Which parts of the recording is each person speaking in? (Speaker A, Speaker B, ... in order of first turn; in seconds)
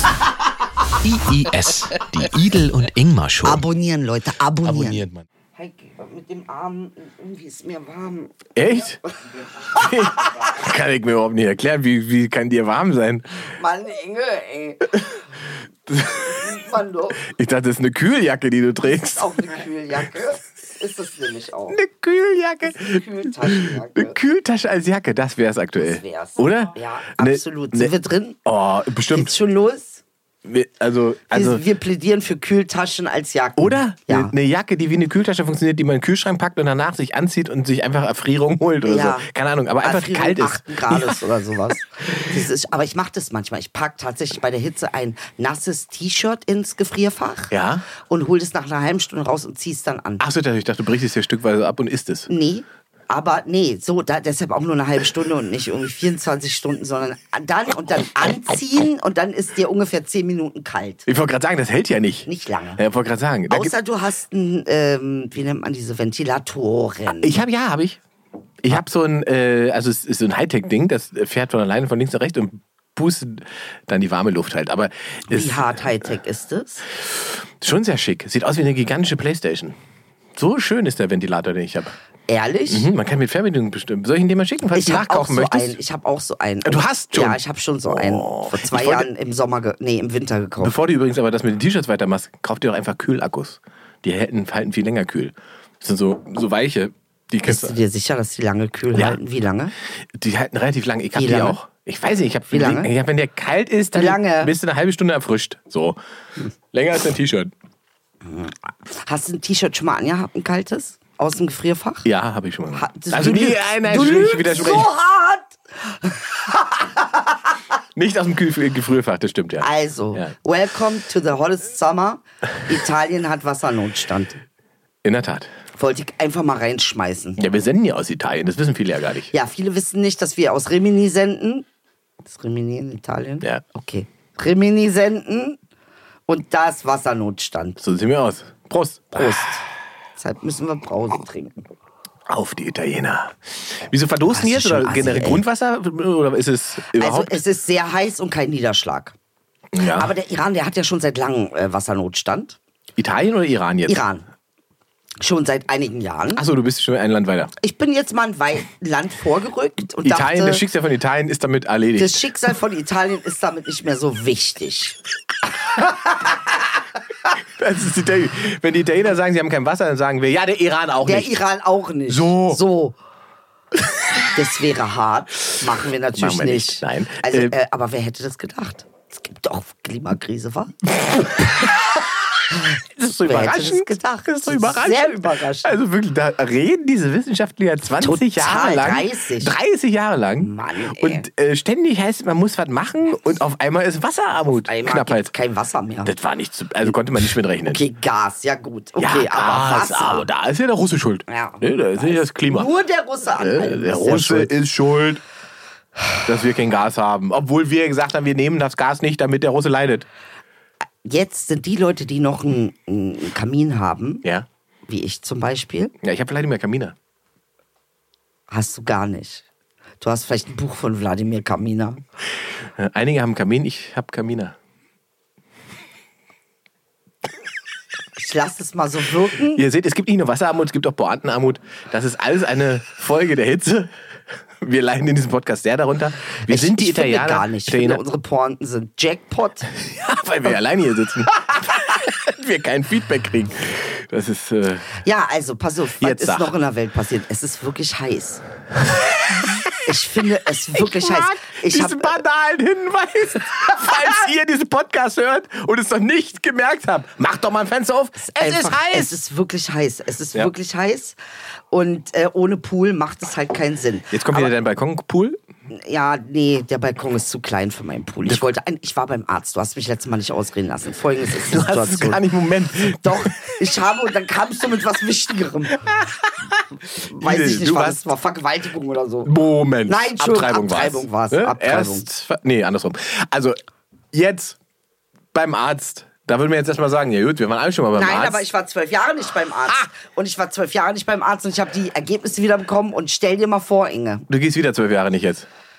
Speaker A: 1.0-3.6
Speaker B: 3.4-8.5, 9.3-10.4, 13.5-15.0, 16.1-17.2, 19.1-21.8, 22.7-24.2, 25.8-28.4, 29.1-30.0, 31.3-34.3, 38.8-39.3, 39.8-50.2, 52.3-61.0, 62.2-62.8, 63.5-67.4, 75.3-76.8, 82.3-82.9, 84.7-90.8, 97.5-99.7, 101.1-101.6, 102.5-102.9, 103.9-104.5, 108.2-112.1, 112.7-117.5, 119.6-124.4, 125.8-127.4, 129.3-131.7, 132.2-135.6, 136.3-137.8, 139.1-139.7, 140.2-141.7, 144.3-145.4, 146.9-149.2, 149.9-152.6, 153.8-154.3, 155.2-156.4, 157.6-160.6, 161.9-165.0, 165.6-166.6, 171.0-173.0, 174.2-180.8, 182.5-185.8, 188.0-189.6, 190.4-191.2, 194.6-196.1, 197.7-200.3, 201.3-204.5, 211.0-214.2, 214.9-215.9, 218.5-219.4, 220.0-222.0, 228.2-229.6, 236.4-239.7, 241.4-241.7, 244.9-248.4, 249.8-252.2, 258.2-261.2, 261.7-264.6, 265.7-275.8, 277.0-279.3, 279.9-282.1, 287.9-294.2
Speaker C: 4.7-5.2, 8.6-9.0, 9.7-13.4, 15.9-16.5, 17.2-19.5, 21.7-27.9, 28.4-29.3, 30.4-31.6, 33.6-41.2, 42.1-42.4, 47.5-47.9, 50.2-52.3, 61.1-63.7, 67.2-68.0, 68.6-75.8, 77.1-79.8, 80.3-81.9, 82.7-85.8, 86.6-89.1, 90.6-97.8, 98.9-99.2, 100.1-106.0, 106.7-107.5, 112.0-114.9, 118.0-120.3, 125.0-125.5, 127.4-129.3, 137.8-139.4, 142.3-147.4, 149.7-150.1, 153.0-154.0, 156.3-157.5, 160.0-162.2, 167.6-171.4, 172.1-172.6, 176.1-177.6, 180.9-181.8, 182.9-195.3, 196.0-197.8, 199.0-202.7, 203.3-205.2, 206.2-210.1, 216.0-216.9, 222.8-224.5, 229.5-233.9, 234.6-238.0, 239.8-244.9, 246.0-246.5, 249.3-249.7, 250.7-259.1, 264.1-265.4, 271.4-273.5, 275.8-278.0, 279.2-283.6, 284.1-284.6, 285.3-288.4, 294.3-295.5